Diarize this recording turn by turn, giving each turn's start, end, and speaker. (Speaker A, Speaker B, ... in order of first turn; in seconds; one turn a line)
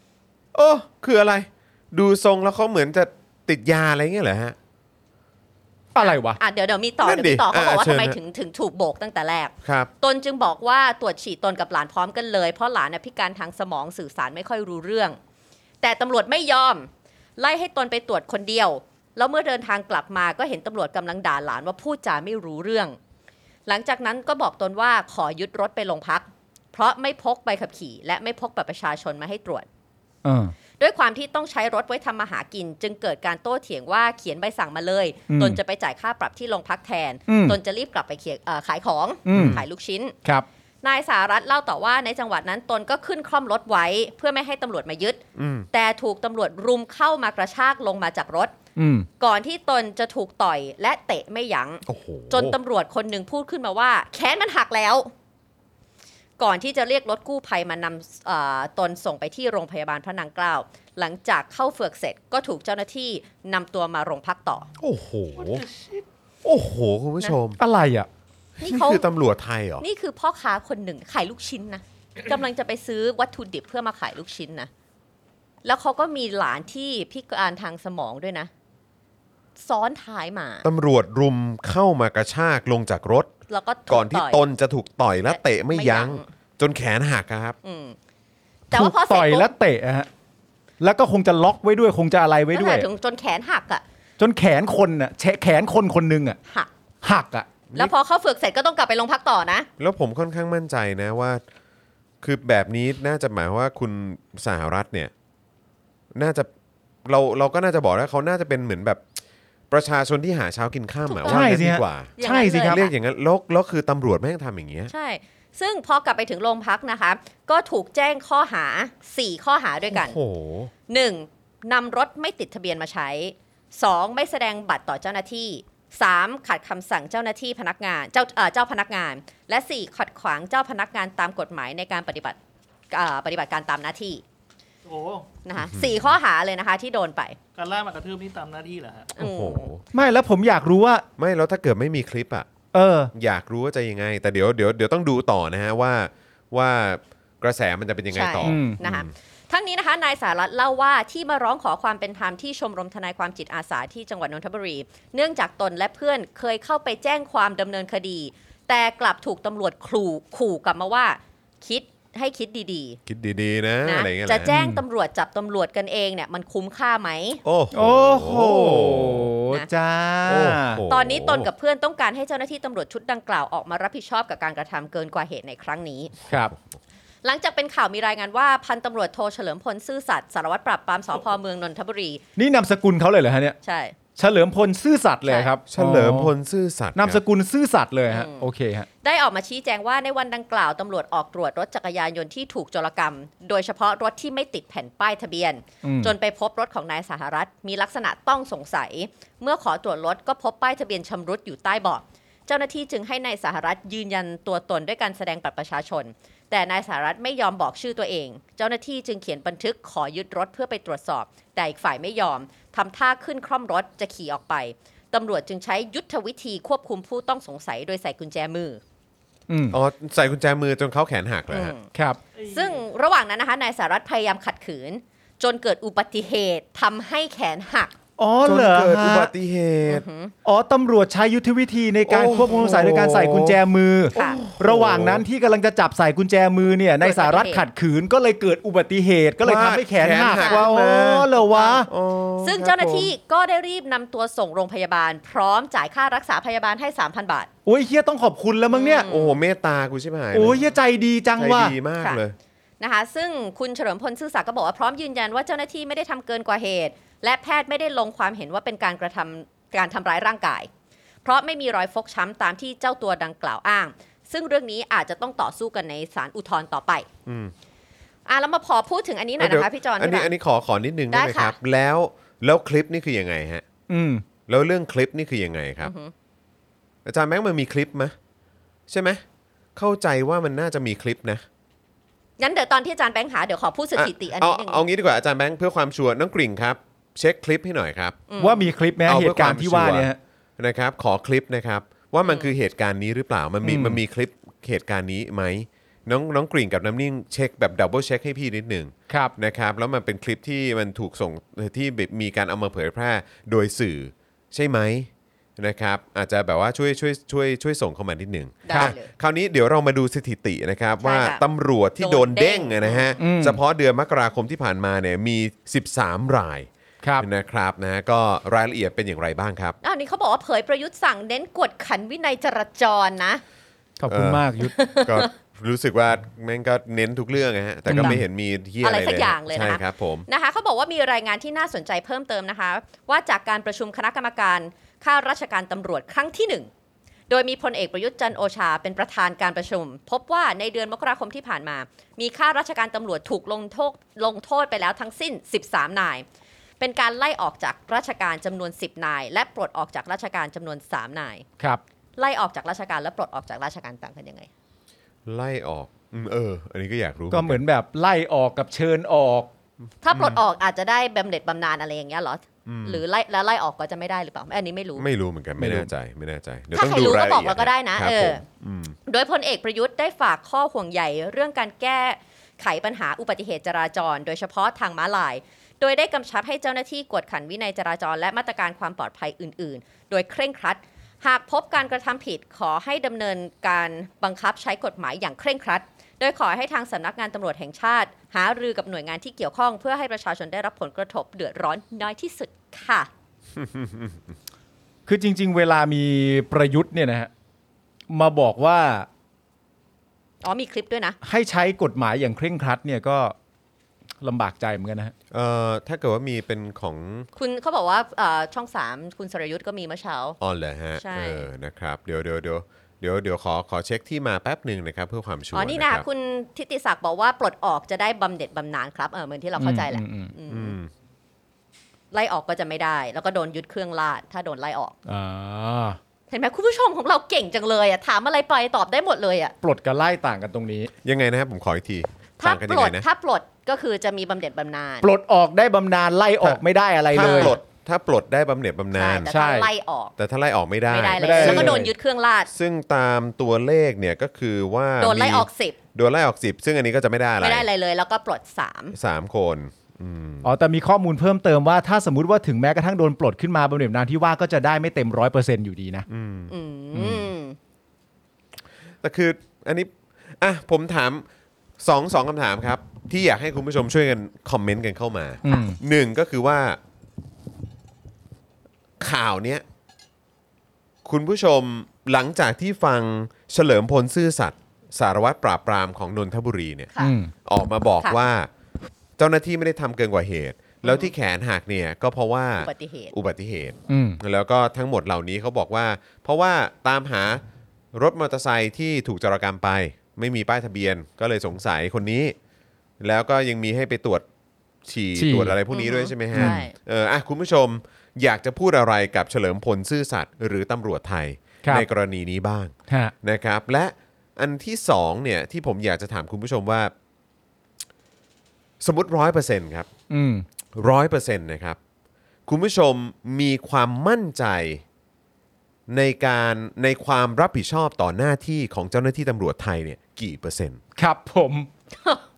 Speaker A: 0.5-4.5
Speaker B: 5.9-6.4
Speaker C: 6.4-15.2
Speaker A: 7.0-8.2
Speaker A: 9.6-9.9
Speaker C: 15.8-23.0
Speaker C: 23.6-29.6
Speaker B: 30.2-30.5
Speaker C: 30.8-40.1
Speaker B: 35.3-35.6
Speaker B: 37.3-37.6
Speaker B: 39.3-39.6
Speaker A: 39.3-39.6
Speaker C: 40.8-45.2
Speaker A: 45.4-45.6
Speaker C: 45.7-48.5
Speaker B: 48.8-49.1
Speaker C: 49.2-55.1
Speaker A: 51.9-52.5
Speaker C: 56.4-64.7
Speaker A: 64.8-65.6
Speaker D: 65.4-66.0
Speaker A: 66.4-67.6
Speaker B: 67.6-68.1
Speaker C: 68.6-69.0
Speaker A: 68.6-69.8
Speaker C: 69.8-74.7
Speaker C: 75.6-78.5
Speaker C: 79.6-80.7
Speaker A: 80.6-83.3
Speaker C: 83.5-84.4
Speaker A: 83.9-87.5
Speaker C: 85.3-86.3
Speaker C: 87.6-88.0
Speaker C: 88.7-89.5
Speaker B: 88.7-90.1
Speaker B: 90.8-92.9
Speaker C: 92.5-93.8
Speaker B: 94.2-96.4
Speaker B: 97.0-97.5
Speaker C: 97.7-99.7
Speaker A: 99.8-101.4
Speaker A: 102.2-105.1
Speaker A: 106.1-106.5
Speaker A: 107.0-109.0
Speaker A: 109.7-114.9
Speaker C: 111.1-112.9
Speaker B: 111.3-112.8
Speaker C: 114.9-120.2
Speaker A: 119.9-120.7
Speaker C: 120.9-132.4
Speaker C: 132.9-134.2
Speaker D: 134.8-135.3
Speaker C: 135.4-137.4
Speaker A: 135.6-136.0
Speaker D: 137.6-139.1
Speaker C: 139.2-139.7
Speaker A: 139.2-139.8
Speaker B: 139.9-141.1
Speaker A: 141.2-142.5
Speaker B: 142.7-143.1
Speaker A: 143.1-149.1
Speaker C: 148.1-163.0
Speaker B: 148.4-148.8
Speaker A: 163.1-164.5
Speaker C: 163.8-167.4
Speaker B: 164.4-164.8
Speaker A: 167.4-169.3
Speaker B: 167.7-170.8
Speaker A: 170.2-171.5
Speaker C: 170.9-176.1
Speaker A: 176.3-176.6
Speaker C: 177.2-182.2
Speaker B: 182.4-183.6
Speaker C: 183.6-183.9
Speaker B: 184.2-186.3
Speaker C: 185.2-185.5
Speaker A: 185.7-187.2
Speaker B: 186.9-188.8
Speaker C: 188.1-188.5
Speaker C: 189.0-218.8
Speaker B: 195.8-196.1
Speaker B: 219.5-219.8
Speaker A: 219.7-221.7
Speaker C: 221.5-221.9
Speaker B: 221.9-222.2
Speaker D: 222.4-222.8
Speaker C: 222.5-227.9
Speaker B: 228.2-229.3
Speaker A: 228.4-230.0
Speaker C: 229.9-230.3
Speaker B: 230.4-241.9
Speaker A: 232.1-233.6
Speaker C: 234.1-234.4
Speaker A: 234.1-235.2
Speaker C: 237.0-237.6
Speaker A: 239.4-241.3
Speaker C: 240.3-240.7
Speaker C: 241.4-241.8
Speaker A: 241.8-243.1
Speaker C: 242.4-247.5
Speaker B: 247.7-249.1
Speaker C: 248.7-249.4
Speaker A: 249.1-250.6
Speaker B: 250.3-251.7
Speaker A: 251.4-252.3
Speaker C: 252.8-260.7
Speaker C: 261.2-267.1
Speaker A: 267.2-267.5
Speaker C: 268.2-270.3
Speaker A: 269.4-273.6
Speaker C: 271.1-271.5
Speaker B: 273.9-274.2
Speaker A: 274.5-275.9
Speaker C: 275.8-276.1
Speaker A: 277.0-278.1
Speaker A: 278.9-279.2
Speaker A: 279.8-281.4
Speaker C: 282.4-284.8
Speaker A: 283.9-288.2
Speaker C: 288.3-288.7
Speaker B: 288.4-290.2
Speaker A: 289.1-316.7
Speaker C: 292.2-292.5
Speaker B: 293.6-294.0
Speaker B: 299.1-299.3
Speaker C: 308.6-309.1
Speaker B: 308.7-308.9
Speaker C: 311.0-311.4
Speaker C: 312.0-313.2
Speaker B: 313.2-313.6
Speaker A: 317.2-319.8
Speaker C: 319.8-323.4
Speaker B: 324.0-324.7
Speaker A: 324.1-324.4
Speaker C: 324.6-325.3
Speaker A: 324.9-330.3
Speaker B: 327.9-328.2
Speaker C: 328.8-336.7
Speaker C: 337.3-346.2
Speaker C: 346.8-351.4
Speaker C: 352.2-354.5
Speaker A: 355.2-357.6
Speaker B: 357.3-359.5
Speaker C: 360.0-365.1
Speaker A: 360.1-360.4
Speaker A: 362.6-363.0
Speaker A: 365.0-368.9
Speaker B: 365.6-365.9
Speaker C: 366.7-368.4
Speaker C: 369.1-393.1
Speaker A: 393.6-394.1
Speaker B: 395.1-397.3
Speaker B: 398.1-399.1
Speaker C: 400.4-401.2
Speaker B: 401.2-403.3
Speaker B: 404.2-405.1
Speaker A: 405.3-407.3
Speaker C: 407.4-410.4
Speaker A: 410.4-416.0
Speaker C: 411.0-411.5
Speaker C: 415.5-420.7
Speaker B: 419.6-420.3
Speaker A: 420.5-420.9
Speaker C: 422.1-424.9
Speaker B: 425.1-426.0
Speaker C: 426.3-429.5
Speaker B: 429.6-430.9
Speaker A: 431.0-433.0
Speaker C: 432.4-435.1
Speaker B: 435.0-437.6
Speaker A: 437.1-439.3
Speaker C: 437.2-437.6
Speaker C: 438.9-440.1
Speaker B: 439.3-439.7
Speaker A: 440.2-441.9
Speaker C: 440.9-442.5
Speaker B: 441.2-441.9
Speaker A: 442.5-447.6
Speaker C: 445.0-445.8
Speaker C: 447.4-448.9
Speaker A: 448.9-450.5
Speaker B: 450.4-456.1
Speaker A: 456.1-456.5
Speaker C: 456.5-457.6
Speaker A: 459.0-461.2
Speaker A: 461.8-466.8
Speaker B: 465.4-465.8
Speaker A: 469.0-469.6
Speaker A: 471.0-476.9
Speaker B: 477.0-477.3
Speaker A: 477.4-478.5
Speaker A: 479.2-487.4
Speaker C: 480.8-481.1
Speaker C: 482.6-483.1
Speaker B: 483.9-484.2
Speaker A: 487.9-492.3
Speaker A: 493.0-494.2
Speaker A: 494.8-506.9
Speaker B: 495.1-495.6
Speaker C: 495.7-496.7
Speaker B: 496.3-496.6
Speaker B: 502.9-503.1
Speaker A: 508.8-509.9
Speaker B: 510.1-510.4
Speaker A: 510.8-511.8
Speaker A: 512.5-514.8
Speaker A: 515.9-520.8
Speaker B: 521.0-521.7